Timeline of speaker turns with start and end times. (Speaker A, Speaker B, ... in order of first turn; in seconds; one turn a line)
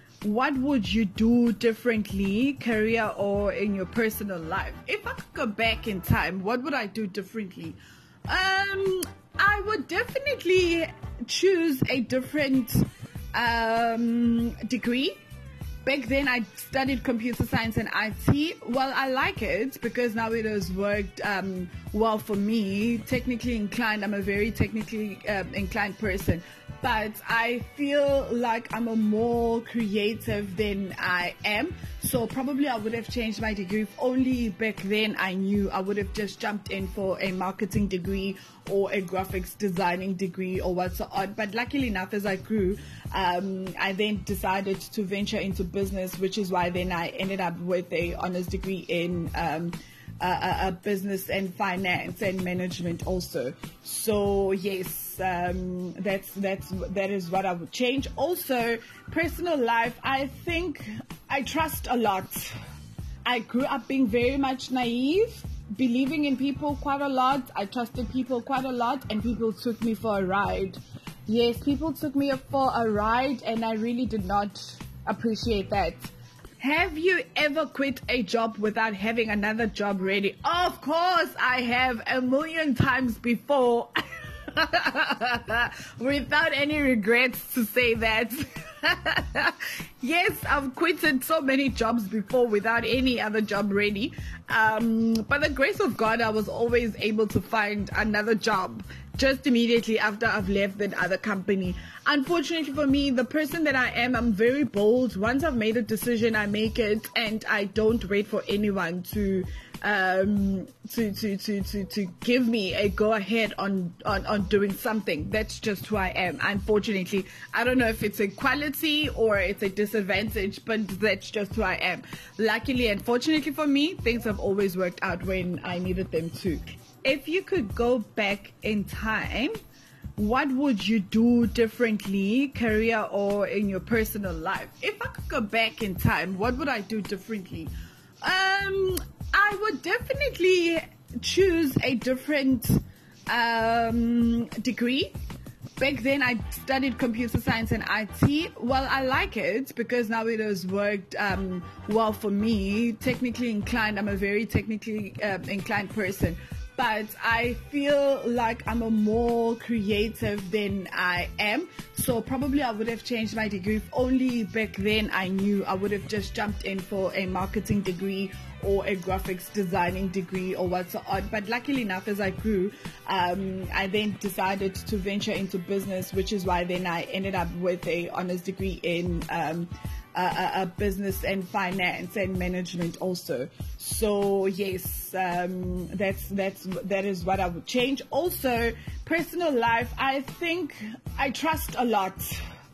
Speaker A: 0.2-12.8
Speaker A: 13.3-15.2
Speaker A: 15.8-62.5
Speaker A: 63.2-83.9
Speaker A: 84.5-129.6
Speaker A: 130.2-145.2
Speaker A: 145.8-192.4